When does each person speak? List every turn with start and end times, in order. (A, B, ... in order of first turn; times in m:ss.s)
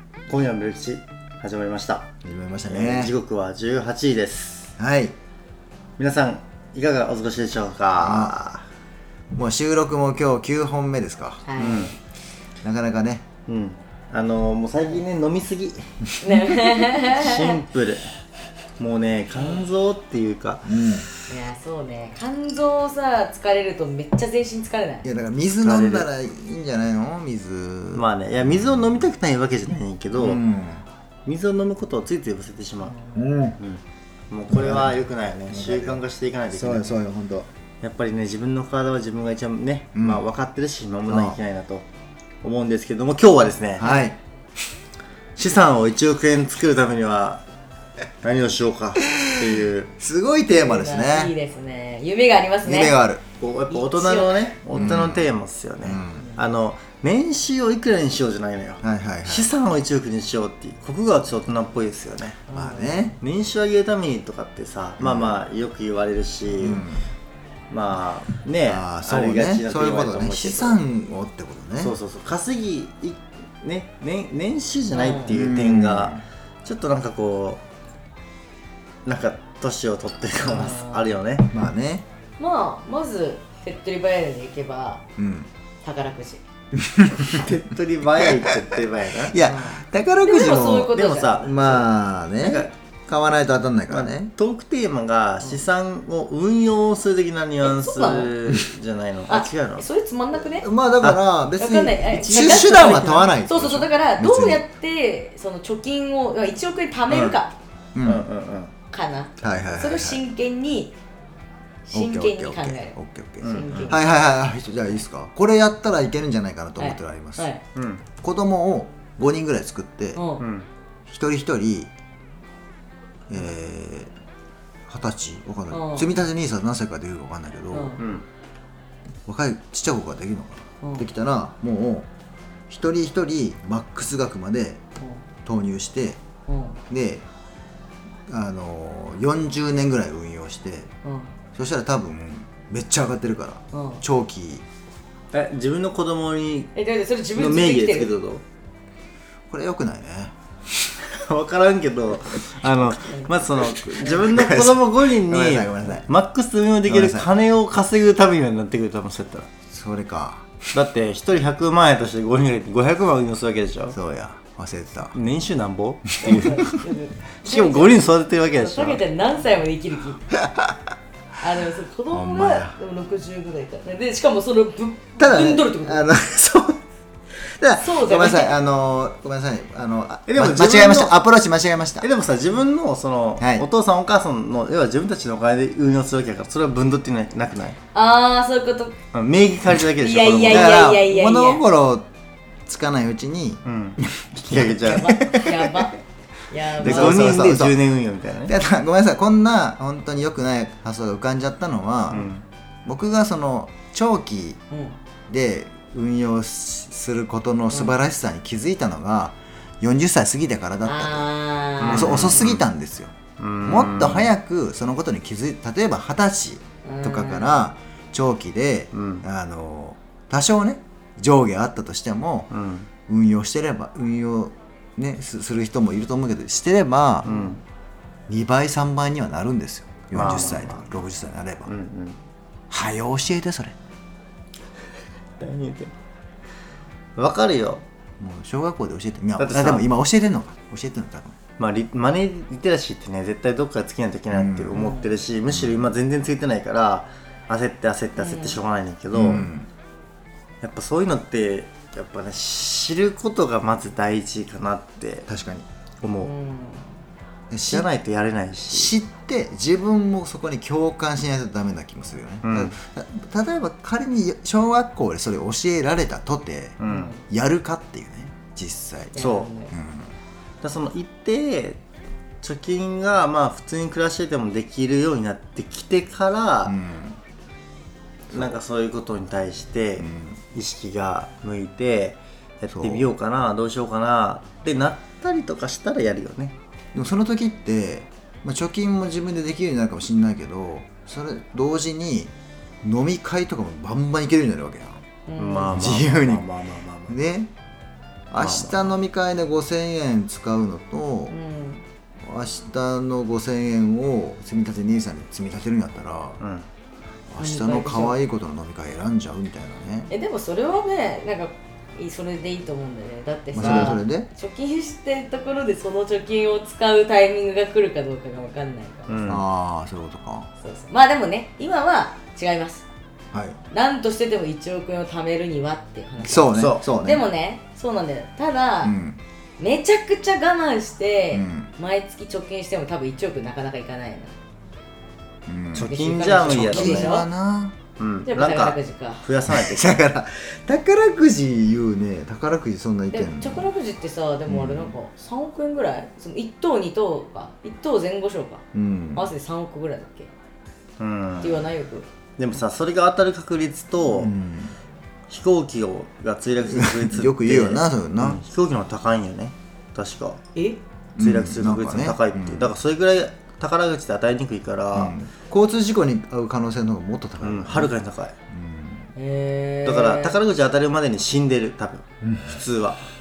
0:00.3-0:02.1 A
0:02.2-0:03.1 B
0:02.7-0:04.7 A
0:04.8-0:05.2 B
0:06.0-0:08.6 A
0:08.0-0:08.6 B
0:09.3-0:11.5 B
0:11.4-0:12.0 C
0:11.6-0:11.9 A
0:12.6-0:13.3 B
0:13.5-0:18.1 A
0:16.2-0:17.6 C
0:18.8-0:20.8 A
0:19.3-0:19.6 C
0:20.6-0:21.1 B
0:21.3-0:25.1 C
0:25.0-0:29.1 B
0:25.6-0:26.1 A
0:27.9-0:30.4 A
0:30.2-0:30.8 B
0:31.3-0:33.0 A
0:32.8-0:33.2 C
0:33.2-0:33.6 B
0:33.6-0:37.0 A
0:34.5-0:37.5 B
0:37.8-0:41.8 A
0:40.0-0:40.2 B
0:41.1-0:41.4 B
0:42.4-0:43.9 A
0:43.8-0:44.2 B
0:45.4-0:47.4 A
0:48.2-0:49.9 A
0:49.0-0:51.3 B
0:50.5-0:53.0 C
0:52.6-0:53.2 B
0:53.4-1:02.4 A
0:53.7-0:54.5 C
0:54.7-0:55.3 B
0:55.8-0:56.3 B
0:58.8-0:59.5 B
1:02.5-1:03.1 C
1:02.5-1:03.2 B
1:03.2-1:06.9 A
1:05.0-1:05.4 B
1:06.6-1:07.0 B
1:07.7-1:10.8 A
1:08.6-1:12.0 B
1:11.8-1:17.6 A
1:14.9-1:15.3 C
1:15.3-1:16.2 B
1:19.1-1:21.5 A
1:20.4-1:21.1 C
1:21.5-1:22.1 B
1:22.4-1:25.0 C
1:25.2-1:25.5 B
1:25.8-1:26.4 C
1:26.7-1:27.6 B
1:27.3-1:29.4 A
1:28.2-1:28.6 B
1:29.3-1:34.3 B
1:29.4-1:31.5 C
1:30.9-1:31.9 A
1:32.4-1:32.7 A
1:33.9-1:39.9 A
1:37.6-1:38.3 C
1:39.3-1:40.7 C
1:40.6-1:44.6 B
1:41.6-1:47.5 C
1:42.1-1:43.2 A
1:47.1-1:47.4 A
1:48.0-1:48.3 B
1:48.0-1:48.7 A
1:48.9-1:51.0 C
1:49.4-1:50.2 B
1:51.9-1:53.0 C
1:51.9-1:57.5 B
1:53.4-1:54.0 A
1:53.5-1:54.0 C
1:56.8-1:57.6 C
1:57.8-1:58.0 A
1:58.2-2:00.2 B
2:00.2-2:00.4 C
2:00.4-2:00.7 A
2:01.1-2:01.9 B
2:03.3-2:04.1 B
2:04.9-2:08.0 B
2:05.7-2:06.1 C
2:07.7-2:08.0 C
2:08.0-2:08.3 A
2:09.3-2:12.1 B
2:10.8-2:11.1 C
2:12.7-2:14.8 B
2:15.4-2:16.2 B
2:16.5-2:16.8 C
2:16.9-2:17.2 B
2:18.3-2:20.9 B
2:21.0-2:21.3 C
2:21.6-2:24.6 B
2:23.7-2:24.0 C
2:25.3-2:26.7 A
2:26.8-2:28.1 C
2:27.4-2:28.4 A
2:29.5-2:30.9 B
2:31.0-2:39.5 A
2:33.1-2:33.3 C
2:33.6-2:36.1 B
2:36.9-2:37.3 B
2:39.7-2:40.7 B
2:40.7-2:44.0 A
2:43.9-2:45.2 B
2:45.1-2:46.8 A
2:46.2-2:50.3 C
2:46.3-2:46.5 B
2:47.4-2:49.0 A
2:50.4-2:50.8 B
2:51.4-2:56.0 C
2:52.1-2:52.8 B
2:55.2-2:56.8 B
2:57.4-3:02.1 B
2:57.8-2:58.6 C
3:00.3-3:01.2 A
3:02.0-3:07.8 A
3:03.4-3:03.7 B
3:07.9-3:09.0 C
3:09.1-3:10.8 A
3:10.0-3:11.6 C
3:10.5-3:12.1 B
3:12.7-3:15.8 B
3:13.6-3:15.2 A
3:14.8-3:17.5 C
3:16.8-3:17.9 B
3:16.8-3:18.5 A
3:18.5-3:22.3 B
3:22.1-3:22.4 A
3:22.8-3:24.6 B
3:24.7-3:25.0 C
3:25.3-3:31.3 B
3:27.7-3:28.0 C
3:30.8-3:32.4 C
3:31.8-3:32.7 A
3:31.8-3:42.5 B
3:33.4-3:34.3 A
3:36.8-3:37.6 C
3:38.9-3:39.2 A
3:42.5-3:42.9 A
3:43.1-3:47.3 B
3:47.2-3:47.6 A
3:47.3-3:47.6 C
3:48.3-3:51.7 B
3:50.1-3:51.0 A
3:51.7-3:52.2 A
3:52.7-3:53.8 B
3:55.4-3:55.9 A
3:57.2-3:57.8 A
3:58.2-4:01.4 B
3:59.4-3:59.8 A
4:01.6-4:09.5 A
4:04.3-4:04.8 B
4:04.8-4:05.1 C
4:05.5-4:05.9 B
4:08.2-4:08.6 C
4:09.1-4:09.7 B
4:10.6-4:15.3 A
4:15.3-4:15.7 B
4:16.0-4:16.3 A
4:16.2-4:16.9 C
4:17.5-4:17.9 B
4:17.7-4:19.0 A
4:18.7-4:29.2 B
4:22.4-4:22.7 A
4:26.8-4:27.1 A
4:26.9-4:27.2 C
4:29.1-4:29.7 C
4:29.2-4:29.5 A
4:29.7-4:30.1 B
4:30.6-4:31.8 A
4:32.4-4:36.8 A
4:36.7-4:37.2 B
4:38.3-4:46.6 A
4:40.0-4:40.4 B
4:42.7-4:43.1 B
4:46.9-4:52.3 B
4:52.8-4:55.0 B
4:55.3-4:55.9 C
4:55.4-4:57.2 A
4:55.7-4:56.5 B
4:57.1-4:57.5 B
4:58.3-5:01.4 B
4:58.4-4:58.9 A
5:01.3-5:01.8 C
5:02.2-5:06.4 B
5:06.4-5:06.7 A
5:07.3-5:10.1 B
5:07.4-5:08.2 C
5:10.1-5:19.2 C
5:13.5-5:14.3 B
5:19.1-5:19.4 A
5:19.3-5:20.5 B
5:20.6-5:22.8 C
5:23.3-5:23.6 B
5:23.7-5:29.0 C
5:26.2-5:27.3 B
5:26.6-5:26.8 A
5:28.8-5:29.2 B
5:29.6-5:34.3 C
5:31.3-5:31.7 B
5:35.5-5:35.9 B
5:35.7-5:37.2 A
5:35.9-5:37.3 C
5:36.4-5:37.8 B
5:38.0-5:40.0 A
5:38.3-5:39.3 C
5:39.5-5:43.7 B
5:43.1-5:50.3 C
5:44.5-5:44.9 B
5:48.7-5:49.3 B
5:51.0-5:51.7 A
5:51.4-5:52.1 C
5:52.4-5:54.3 A
5:54.1-5:54.8 B
5:55.3-6:00.4 A
5:56.7-5:58.4 B
6:01.2-6:02.7 B
6:01.2-6:05.2 A
6:04.9-6:07.9 B
6:07.4-6:08.3 A
6:08.5-6:09.1 B
6:09.2-6:10.4 C
6:09.8-6:13.0 A
6:12.2-6:12.6 B